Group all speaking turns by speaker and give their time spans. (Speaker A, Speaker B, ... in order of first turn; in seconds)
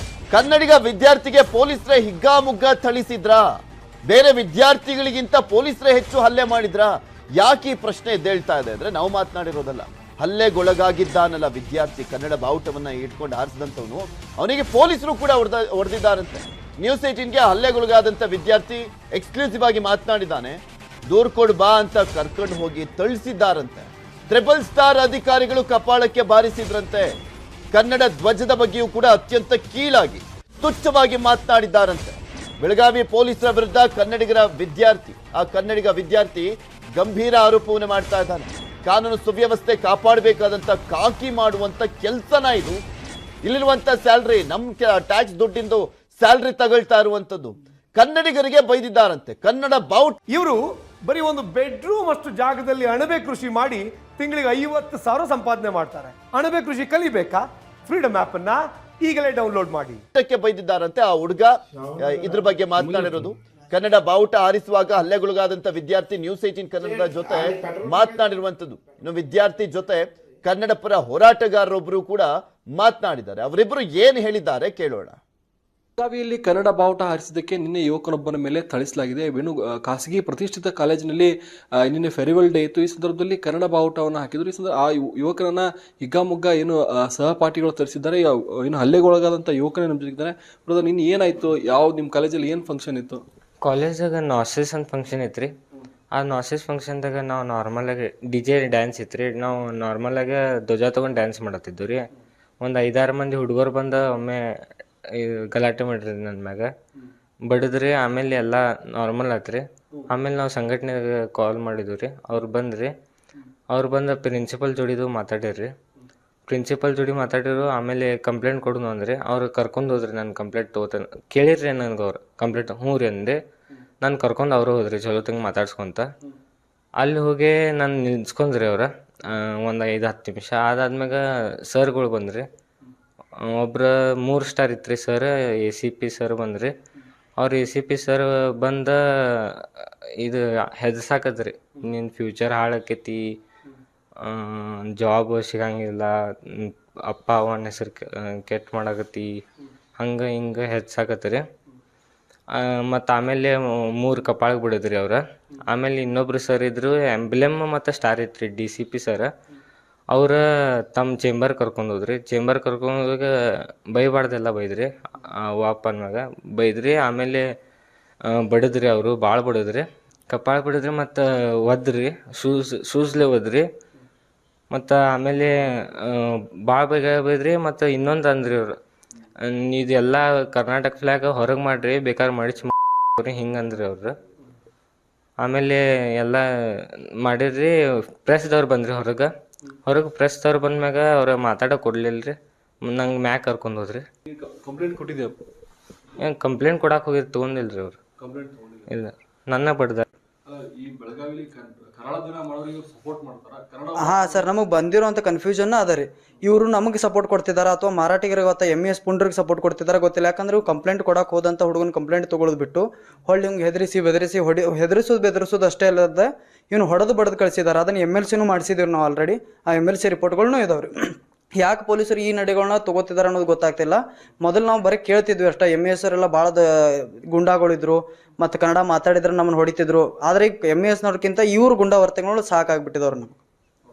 Speaker A: 0.3-3.5, 4.1-27.1, 27.7-42.8, 43.4-50.2, 60.1-75.2
Speaker B: 50.3-60.0
Speaker C: 76.0-93.2, 194.3-195.4, 198.2-198.9, 200.5-204.5
Speaker D: 93.6-95.5, 96.1-102.0, 102.6-104.4, 105.1-106.7, 107.5-112.9, 113.7-115.7, 116.5-123.4, 124.0-126.0, 127.0-132.5, 133.4-136.7, 137.4-143.2, 144.2-149.3, 150.0-151.4, 152.5-159.3, 160.1-160.4, 160.9-163.3, 163.9-167.4, 168.3-173.7, 174.7-178.7, 179.4-184.1, 185.4-186.4, 187.2-187.7, 188.2-189.3, 189.9-194.0, 196.2-198.0, 198.9-200.1
Speaker E: 204.0-233.4